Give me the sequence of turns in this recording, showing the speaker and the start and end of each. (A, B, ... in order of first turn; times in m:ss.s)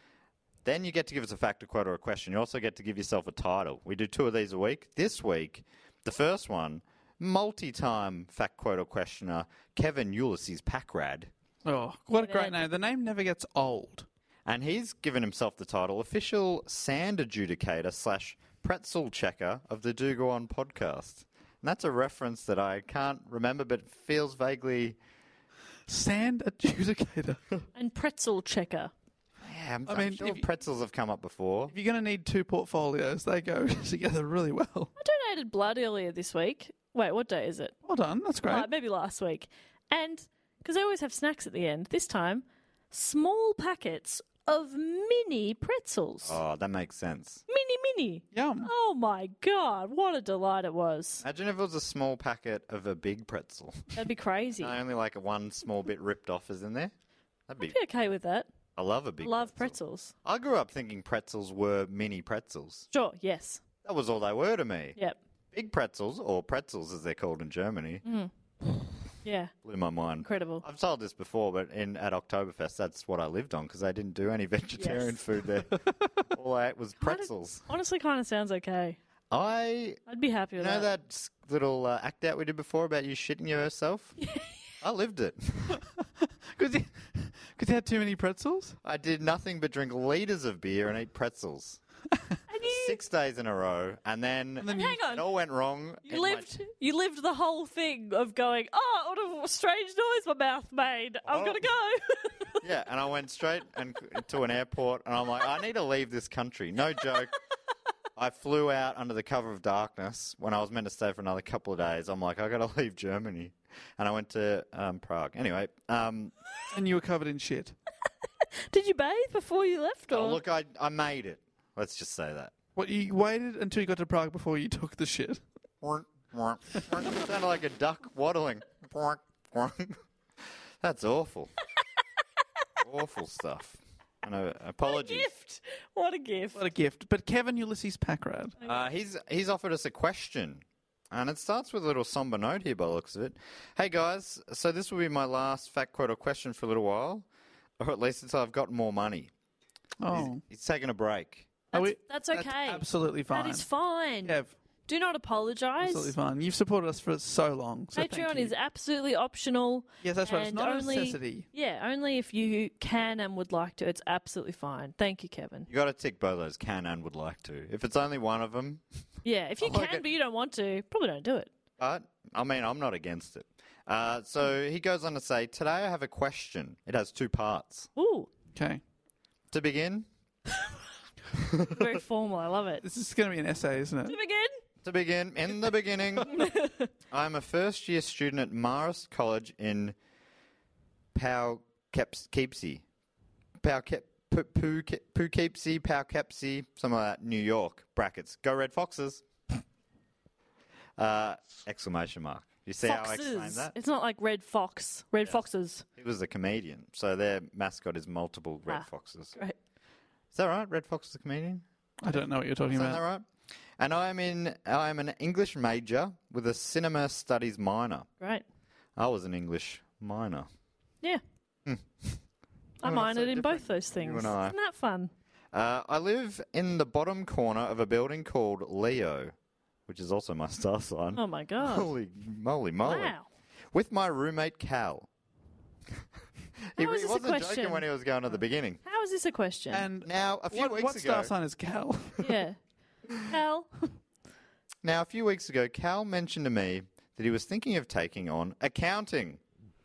0:00.6-0:11.3 A
0:11.6-0:14.0 B
0:12.1-0:12.6 C
0:14.4-0:25.0 A
0:25.9-0:27.4 B
0:27.7-0:28.9 C
0:29.4-0:31.7 A
0:29.9-0:30.5 B
0:31.7-0:34.9 B
0:35.0-0:37.7 C
0:37.8-0:38.7 B
0:38.4-0:46.4 C
0:46.2-0:47.4 A
0:47.5-0:51.2 C
0:48.3-0:48.7 B
0:51.2-0:54.0 A
0:53.9-0:54.8 C
0:54.6-0:56.9 A
0:57.5-0:57.7 A
0:57.6-0:58.5 C
0:58.8-1:02.8 A
0:59.2-1:00.1 C
1:02.9-1:03.6 C
1:03.8-1:05.0 A
1:05.5-1:08.0 A
1:08.0-1:08.3 C
1:09.2-1:09.5 C
1:09.6-1:17.7 A
1:10.2-1:10.6 C
1:14.8-1:15.1 C
1:17.0-1:19.0 C
1:19.3-1:20.0 A
1:20.1-1:20.9 C
1:20.6-1:24.2 A
1:24.2-1:24.6 C
1:24.8-1:25.8 A
1:26.5-1:28.8 B
1:28.8-1:31.8 A
1:32.5-1:33.0 C
1:32.7-1:36.5 A
1:34.6-1:35.0 B
1:34.7-1:35.2 C
1:36.0-1:42.5 C
1:41.3-1:41.6 A
1:42.6-1:47.3 A
1:48.2-1:56.3 A
1:56.7-1:57.7 B
1:58.7-2:00.4 C
2:00.1-2:02.5 A
2:02.8-2:05.4 B
2:05.8-2:10.0 A
2:10.8-2:11.5 A
2:12.8-2:15.3 A
2:14.8-2:16.6 C
2:16.6-2:18.5 B
2:18.6-2:27.2 A
2:27.8-2:29.3 A
2:30.0-2:30.4 B
2:30.1-2:31.5 A
2:31.7-2:36.1 C
2:31.7-2:33.6 B
2:34.2-2:34.5 B
2:35.8-2:38.5 B
2:37.9-2:45.7 C
2:40.0-2:41.4 B
2:45.7-2:48.8 A
2:49.2-2:51.5 C
2:49.6-2:50.0 A
2:51.8-2:57.9 A
2:58.0-2:58.3 C
2:58.5-2:58.8 B
2:59.5-3:00.1 A
3:01.4-3:01.8 A
3:01.7-3:02.8 C
3:02.8-3:04.2 B
3:04.1-3:04.5 C
3:04.8-3:06.3 A
3:06.3-3:06.9 C
3:07.1-3:10.0 A
3:11.1-3:12.8 A
3:13.6-3:19.2 A
3:21.0-3:23.7 A
3:22.8-3:25.8 C
3:26.0-3:29.3 A
3:28.7-3:29.6 C
3:30.3-3:33.3 A
3:32.0-3:33.0 B
3:33.8-3:38.1 A
3:39.0-3:40.5 A
3:41.6-3:42.2 A
3:42.8-3:45.1 C
3:42.8-3:44.6 A
3:45.5-3:49.3 A
3:49.9-3:53.2 A
3:51.1-3:51.9 C
3:52.8-3:53.2 C
3:53.7-3:55.1 A
3:56.7-3:58.8 A
3:56.8-3:57.8 C
3:58.8-3:59.9 C
3:59.7-4:02.2 B
4:00.0-4:01.3 A
4:02.2-4:02.6 C
4:03.2-4:03.9 C
4:04.8-4:09.4 A